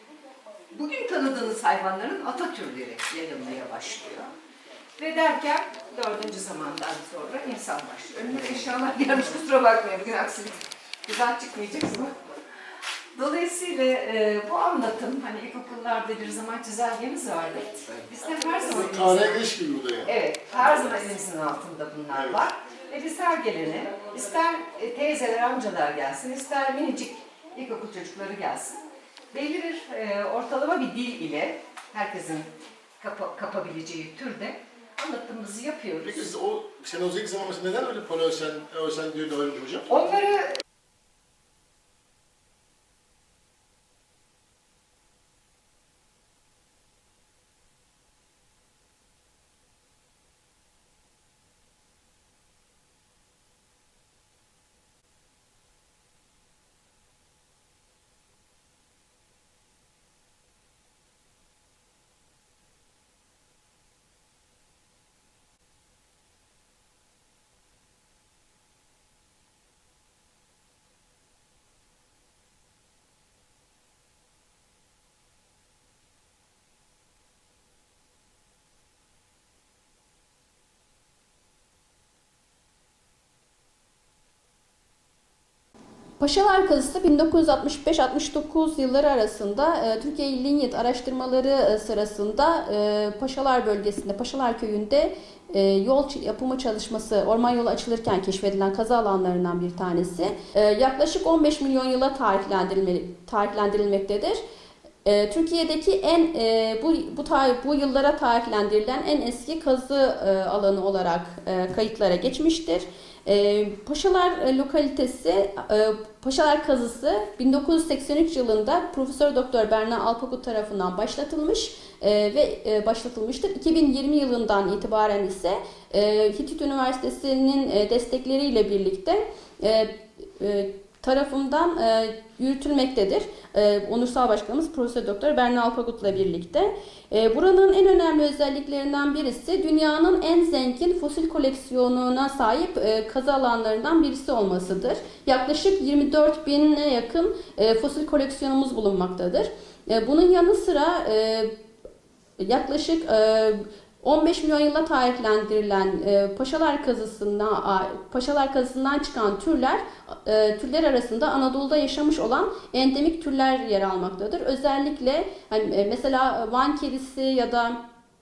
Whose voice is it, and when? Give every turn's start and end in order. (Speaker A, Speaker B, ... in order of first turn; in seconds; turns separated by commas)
Speaker A: 0.7-4.3, Speaker A: 5.0-12.2, Speaker A: 13.1-19.4, Speaker B: 18.7-20.1, Speaker A: 20.0-28.8, Speaker B: 22.1-22.4, Speaker A: 29.3-36.3, Speaker B: 36.0-39.9, Speaker A: 39.9-40.5, Speaker C: 86.2-104.4, Speaker C: 105.0-151.5, Speaker C: 152.4-167.8